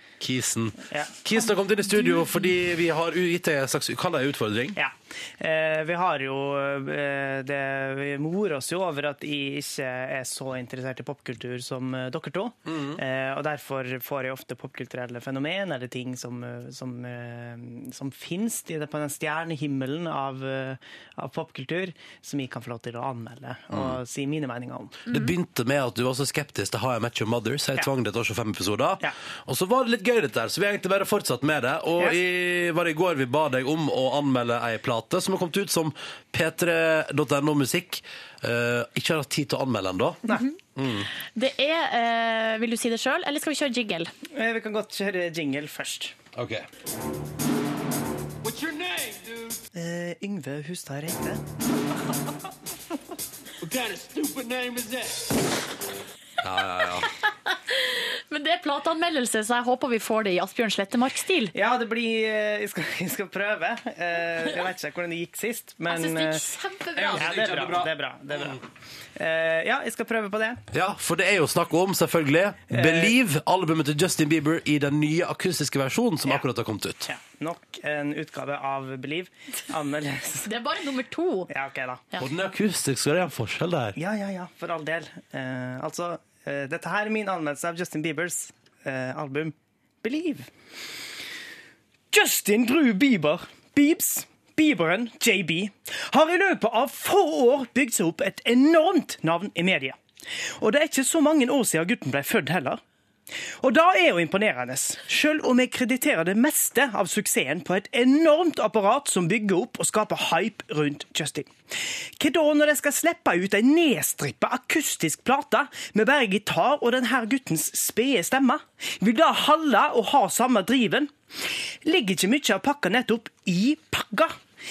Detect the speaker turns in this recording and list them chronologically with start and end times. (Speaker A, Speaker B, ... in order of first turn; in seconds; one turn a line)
Speaker A: 0.2-4.8
Speaker B: 4.8-25.0
Speaker A: 12.7-13.0
Speaker A: 23.7-24.0
Speaker A: 25.1-40.2
Speaker A: 40.8-41.1
Speaker C: 41.4-44.1
Speaker B: 44.3-46.1
Speaker A: 46.4-46.7
Speaker B: 49.7-51.4
Speaker A: 56.4-57.1
Speaker C: 57.7-61.5
Speaker B: 61.5-66.5
Speaker C: 65.9-67.3
Speaker A: 67.0-68.6
Speaker B: 67.2-68.6
Speaker B: 69.2-70.6
Speaker A: 70.7-77.1
Speaker B: 72.7-73.2
Speaker B: 77.1-80.5
Speaker C: 80.5-81.5
Speaker B: 81.5-82.0
Speaker A: 82.2-84.0
Speaker B: 84.0-90.5
Speaker B: 92.1-100.0
Speaker B: 100.6-102.8
Speaker B: 103.6-111.5
Speaker B: 112.2-124.4